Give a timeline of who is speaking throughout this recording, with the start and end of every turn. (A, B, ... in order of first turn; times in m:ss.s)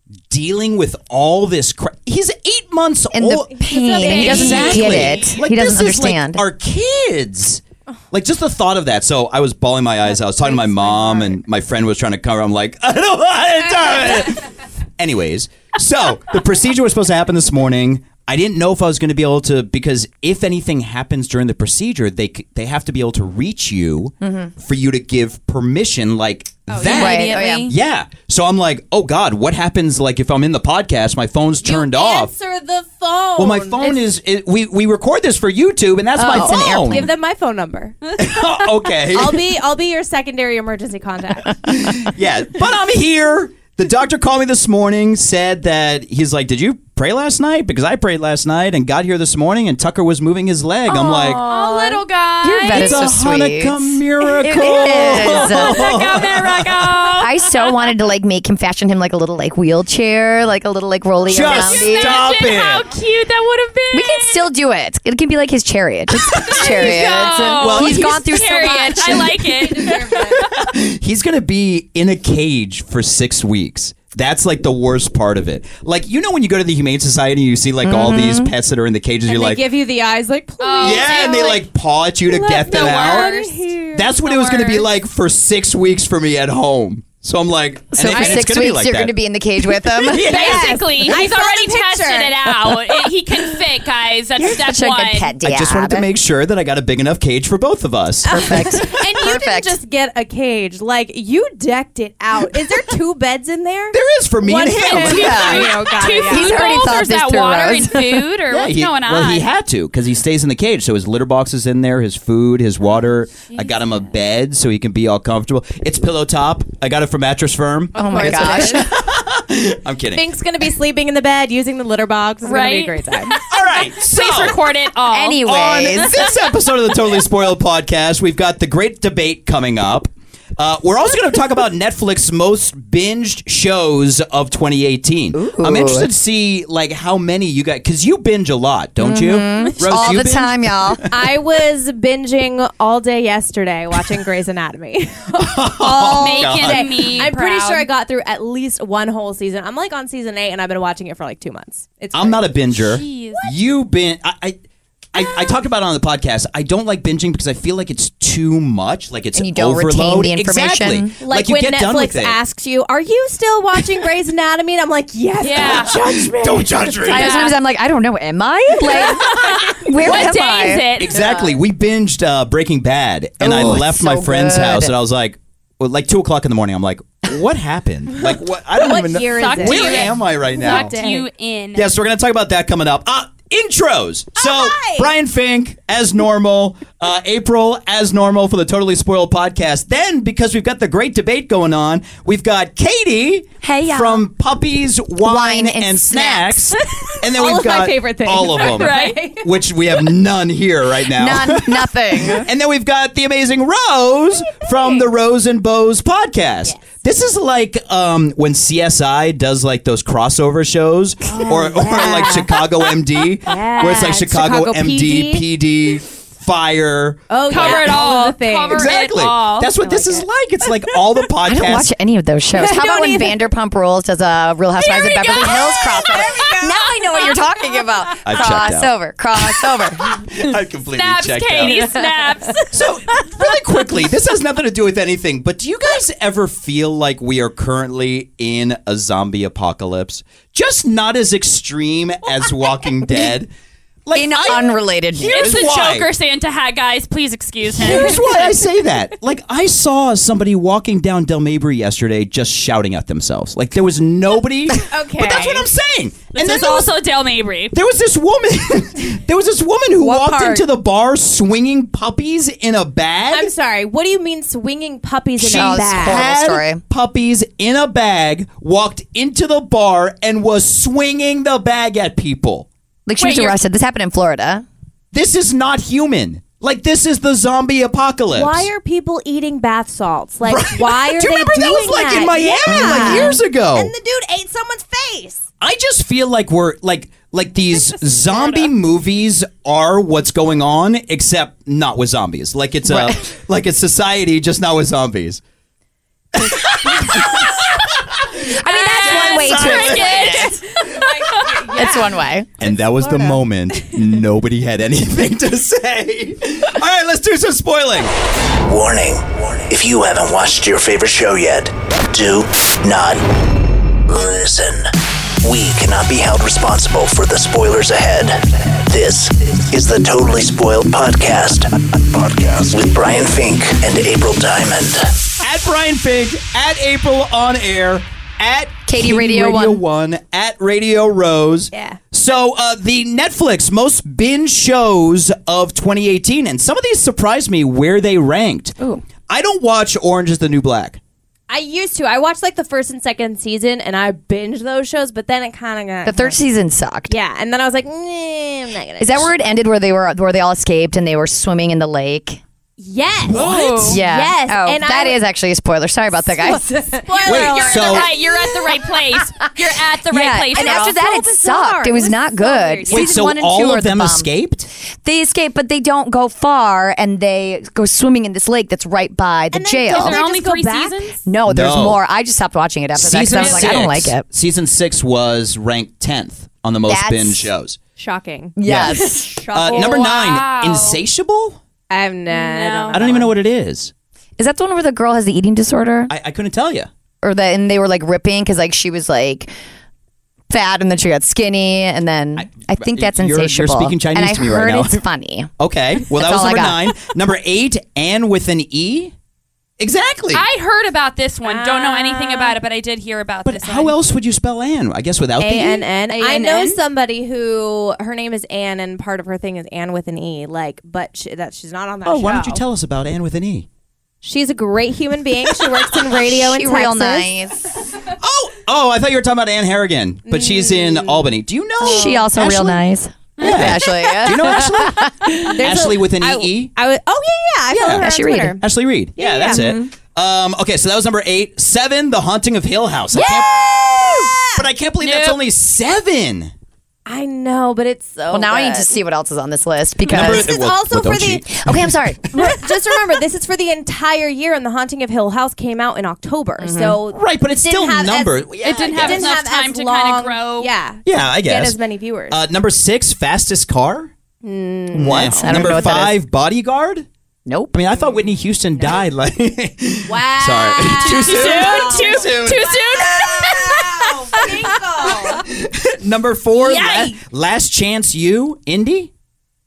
0:00.3-0:32.3 A
0:03.1-0:06.4 B
0:03.5-0:05.4 C
0:04.2-0:05.1 D
0:10.2-0:11.4 C
0:13.8-0:14.2 C
0:24.2-0:24.5 B
0:26.7-0:27.6 C
0:26.8-0:27.7 D
0:26.9-0:27.7 B
0:31.6-0:34.0 C
0:33.4-0:37.1 A
0:36.2-0:37.1 B
0:36.3-0:41.7 C
0:38.2-0:39.6 A
0:41.6-0:51.4 A
0:50.9-0:53.1 D
0:51.4-0:52.0 C
0:52.4-0:55.9 B
0:52.6-0:57.2 A
0:54.4-0:55.1 C
0:55.1-0:58.0 D
0:57.2-1:02.2 B
1:01.3-1:02.8 A
1:01.3-1:04.4 D
1:03.9-1:09.4 B
1:06.2-1:08.4 A
1:06.3-1:10.5 D
1:09.0-1:19.6 A
1:09.5-1:10.5 C
1:17.8-1:18.6 B
1:19.3-1:21.6 C
1:20.6-1:21.6 D
1:20.8-1:23.3 A
1:22.3-1:24.9 C
1:22.6-1:23.6 D
1:23.9-1:30.8 A
1:24.2-1:24.6 D
1:27.9-1:30.4 B
1:28.1-1:28.5 C
1:30.1-1:35.4 D
1:30.2-1:32.6 C
1:34.4-1:36.1 B
1:35.4-1:38.9 A
1:38.2-1:46.8 C
1:38.4-1:39.8 B
1:43.9-1:46.1 A
1:44.7-1:49.5 D
1:45.1-1:48.3 B
1:48.5-2:00.3 A
1:58.0-1:58.9 B
1:58.0-1:58.8 C
2:00.1-2:03.5 C
2:02.4-2:05.5 D
2:03.5-2:04.6 A
2:05.1-2:06.1 B
2:05.4-2:21.4 A
2:15.3-2:16.1 B
2:19.0-2:21.0 B
2:19.6-2:20.3 D
2:21.1-2:32.5 C
2:25.4-2:27.3 A
2:26.2-2:27.9 D
2:32.1-2:34.6 A
2:32.8-2:33.5 D
2:35.1-2:42.4 A
2:39.4-2:41.2 B
2:41.2-2:46.9 C
2:45.4-2:46.0 D
2:45.6-2:47.5 A
2:47.0-2:50.9 B
2:47.1-2:47.6 D
2:48.9-2:51.5 D
2:49.0-3:01.0 A
2:53.4-2:54.9 B
2:58.8-3:01.3 C
2:59.4-3:01.9 D
3:01.8-3:38.0 A
3:04.4-3:05.1 C
3:13.6-3:14.3 B
3:15.2-3:16.7 B
3:17.3-3:19.5 C
3:18.4-3:19.2 D
3:21.1-3:22.5 B
3:24.6-3:25.1 C
3:31.3-3:32.7 C
3:33.4-3:35.4 C
3:37.3-3:38.9 C
3:37.5-3:40.0 D
3:38.7-3:41.9 A
3:41.4-3:50.2 B
3:42.6-3:43.4 C
3:44.8-3:46.5 D
3:45.3-3:47.4 C
3:47.1-3:47.4 D
3:48.2-3:48.9 A
3:50.2-3:52.0 A
3:50.9-3:52.8 D
3:52.7-4:03.5 A
4:04.0-4:06.1 A
4:04.1-4:05.6 B
4:05.3-4:08.5 D
4:07.7-4:16.9 A
4:14.9-4:15.7 C
4:16.3-4:17.7 D
4:17.7-4:23.5 A
4:20.0-4:20.7 C
4:23.3-4:26.3 C
4:25.4-4:32.7 A
4:25.5-4:26.8 B
4:33.1-4:34.7 B
4:33.2-4:33.6 D
4:35.1-4:38.7 A
4:38.3-4:45.4 C
4:40.4-4:43.9 A
4:42.7-4:43.4 B
4:45.6-4:55.4 A
4:48.3-4:48.6 D
4:52.8-4:53.2 B
4:56.3-5:00.5 A
4:56.9-4:57.5 B
4:58.4-5:00.5 B
4:58.7-5:01.6 D
4:59.9-5:02.2 C
5:01.7-5:02.5 B
5:02.6-5:08.1 A
5:02.8-5:04.0 C
5:08.6-5:13.4 E
5:14.1-5:25.2 E
5:25.4-5:38.8 A
5:28.9-5:29.8 B
5:31.7-5:32.0 C
5:38.8-5:39.0 B
5:39.3-5:41.0 A
5:41.5-5:46.4 C
5:46.1-5:47.1 B
5:47.1-5:49.3 C
5:49.0-5:52.4 B
5:52.8-5:55.2 C
5:53.3-5:54.0 A
5:53.3-5:53.9 D
5:53.9-5:57.0 B
5:56.3-5:58.9 C
5:57.1-6:01.0 D
5:57.3-5:58.1 A
5:59.7-6:03.3 C
6:00.1-6:04.3 B
6:02.9-6:04.7 A
6:05.0-6:10.2 B
6:09.5-6:11.1 C
6:09.9-6:11.2 D
6:11.3-6:14.2 B
6:11.5-6:12.0 A
6:13.0-6:17.8 A
6:13.3-6:13.8 D
6:16.9-6:17.5 B
6:18.0-6:20.2 C
6:18.6-6:19.5 B
6:18.6-6:21.6 A
6:19.7-6:21.0 D
6:21.9-6:23.3 C
6:22.3-6:23.0 D
6:22.9-6:23.9 A
6:24.4-6:26.1 B
6:26.1-6:26.9 A
6:27.2-6:29.5 B
6:30.5-6:35.5 B
6:32.4-6:35.0 A
6:35.6-6:39.1 A
6:36.1-6:37.0 B
6:39.8-6:40.4 A
6:40.3-6:44.0 D
6:41.4-6:42.6 C
6:43.4-6:45.8 A
6:45.4-6:52.6 C
6:46.2-6:46.8 D
6:52.0-6:53.7 A
6:54.2-6:57.3 C
6:56.3-6:57.8 B
6:58.1-7:02.8 A
7:00.3-7:01.3 C
7:01.8-7:05.7 B
7:01.8-7:02.1 C
7:03.4-7:06.7 A
7:03.4-7:03.7 D
7:05.5-7:08.6 C
7:07.7-7:08.1 A
7:07.9-7:08.6 B
7:08.6-7:16.5 A
7:09.2-7:09.7 C
7:09.4-7:09.9 B
7:13.1-7:14.7 C
7:15.0-7:15.4 D
7:17.1-7:19.0 C
7:18.3-7:20.5 B
7:20.0-7:23.1 A
7:20.1-7:21.5 C
7:21.5-7:22.5 B
7:22.3-7:32.4 C
7:26.6-7:27.0 B
7:27.1-7:29.4 A
7:28.6-7:30.7 D
7:31.0-7:31.8 A
7:32.3-7:34.1 A
7:34.4-7:35.8 C
7:34.9-7:36.2 B
7:34.9-7:37.1 A
7:37.5-7:37.8 B
7:37.7-7:43.6 A
7:40.1-7:45.4 C
7:41.0-7:45.2 D
7:45.2-7:49.1 A
7:46.6-7:47.2 D